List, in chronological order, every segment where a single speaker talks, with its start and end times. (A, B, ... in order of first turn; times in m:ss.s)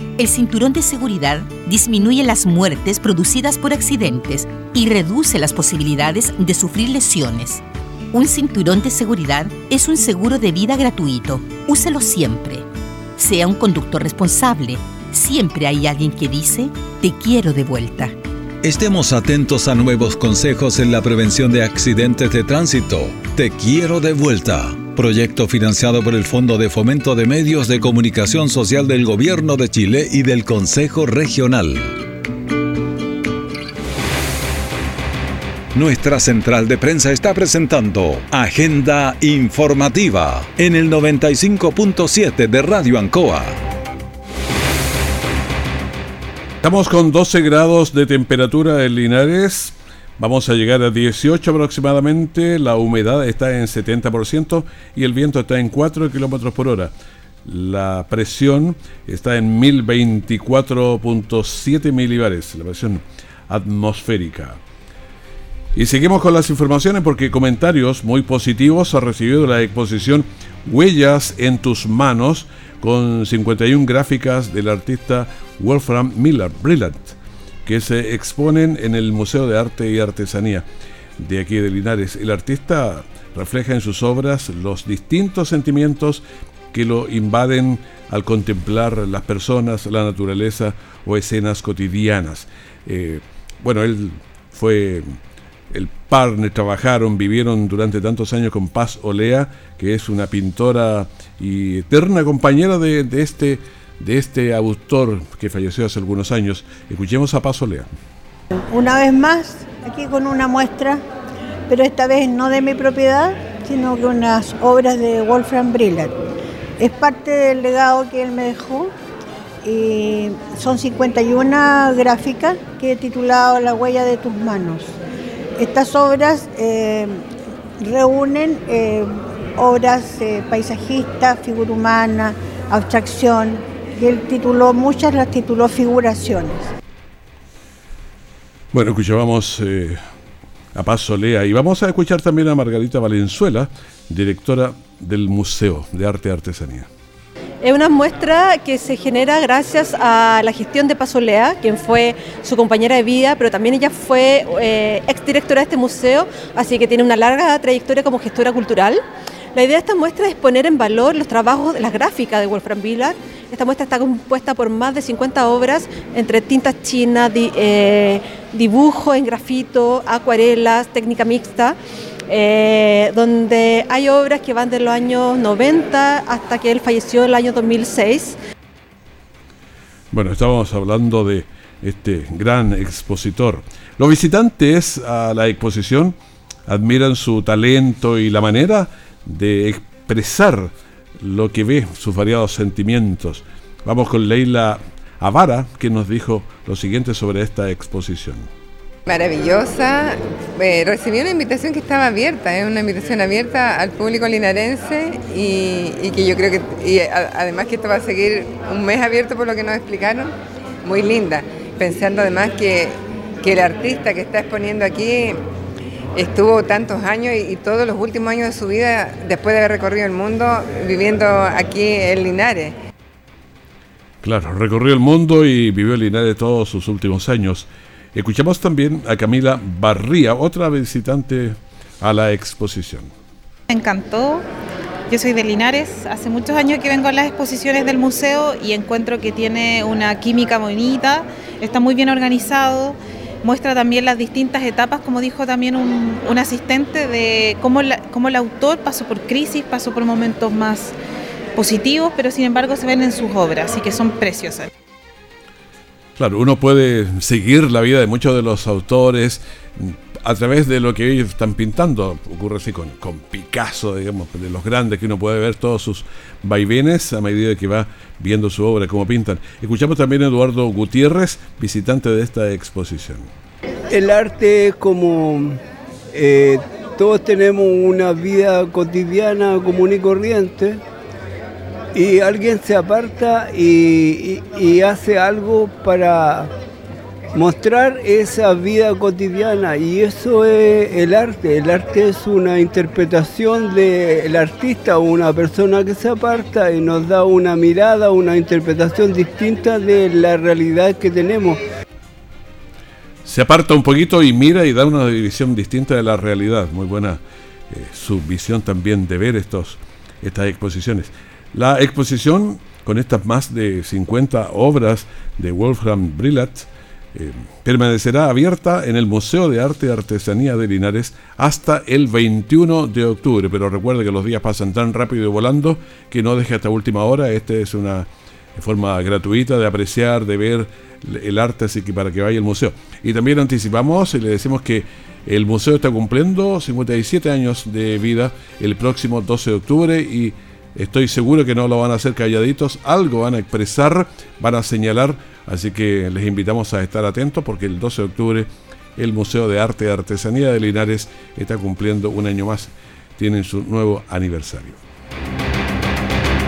0:00.2-0:12.7 A
0:13.2-0:18.1 A
0:18.6-0:32.0 B
0:35.7-0:43.6 B
0:46.6-0:56.9 C
0:57.4-1:04.6 C
1:05.8-1:20.6 C
1:21.2-1:35.2 C
1:35.7-1:47.9 C
1:48.5-1:51.0 D
1:51.7-1:56.1 D
1:56.8-1:58.9 D
1:59.6-2:05.0 D
2:05.6-2:07.3 D
2:07.8-2:16.7 D
2:18.7-2:20.0 C
2:20.7-2:26.9 C
2:27.6-2:39.0 E
2:39.5-2:51.8 E
2:52.3-2:58.4 E
3:00.1-3:06.2 C
3:06.7-3:18.5 C
3:19.1-3:30.3 F
3:30.8-3:35.4 F
3:36.1-3:42.8 F
3:44.2-3:53.1 C
3:53.7-3:54.5 G
3:55.1-4:11.0 G
4:11.6-4:14.7 G
4:16.2-4:33.3 C
4:33.9-4:35.6 H
4:36.1-4:40.8 H
4:41.9-4:46.5 H
4:47.3-5:01.6 H
5:03.2-5:54.8 C